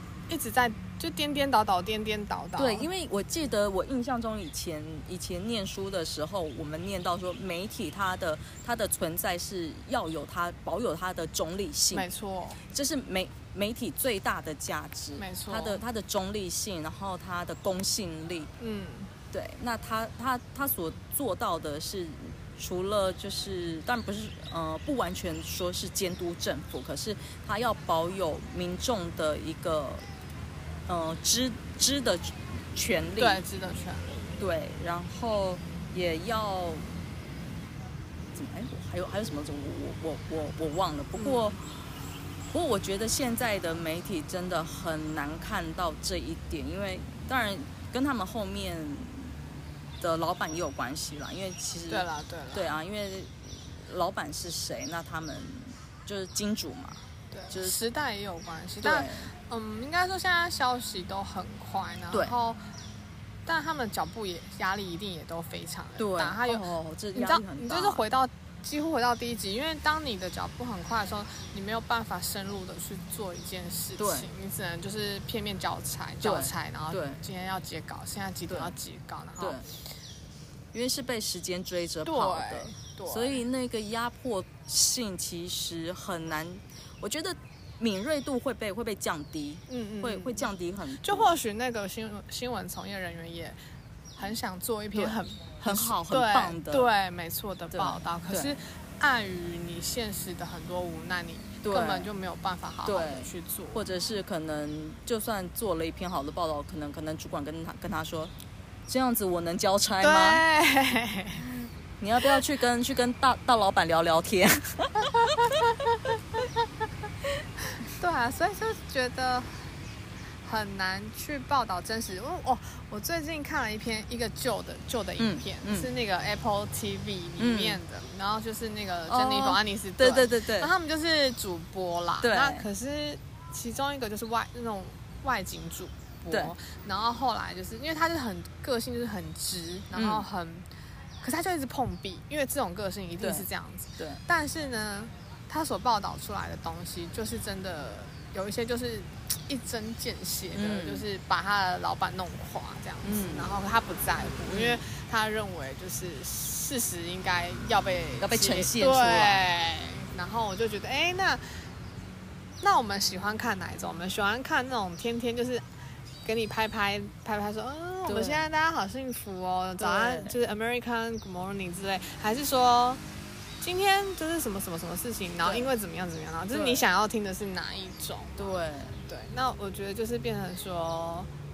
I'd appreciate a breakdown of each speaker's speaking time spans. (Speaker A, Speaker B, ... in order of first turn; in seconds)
Speaker A: 0.3-2.9, 11.9-12.6, 15.2-15.8, 18.6-19.1, 33.2-34.3, 41.2-41.6, 51.9-52.7, 57.3-62.6, 63.5-79.7, 82.0-83.4, 89.7-90.5, 91.0-93.6, 94.2-103.8, 110.0-111.5, 115.3-116.7, 117.8-119.7, 120.4-140.7, 141.2-161.7, 162.6-165.7, 166.2-173.0, 173.6-178.4, 179.1-181.3
Speaker B: 2.6-12.1, 12.7-18.5, 19.3-30.1, 30.9-33.4, 34.4-36.9, 38.3-41.6, 42.5-49.4, 50.0-57.8, 58.8-59.3, 66.0-68.0, 74.0-74.3, 76.2-77.2, 79.4-79.7, 80.7-91.3, 95.0-96.9, 97.7-98.6, 101.6-102.1, 102.8-108.3, 108.9-110.4, 112.0-115.8, 125.2-125.9, 127.4-127.8, 129.1-130.7, 132.2-132.7, 139.9-140.3, 143.2-143.5, 150.5-151.1, 153.0-153.5, 154.5-154.8, 158.2-159.5, 168.1-168.5, 169.8-170.4, 175.4-175.7, 176.5-176.8, 178.4-179.1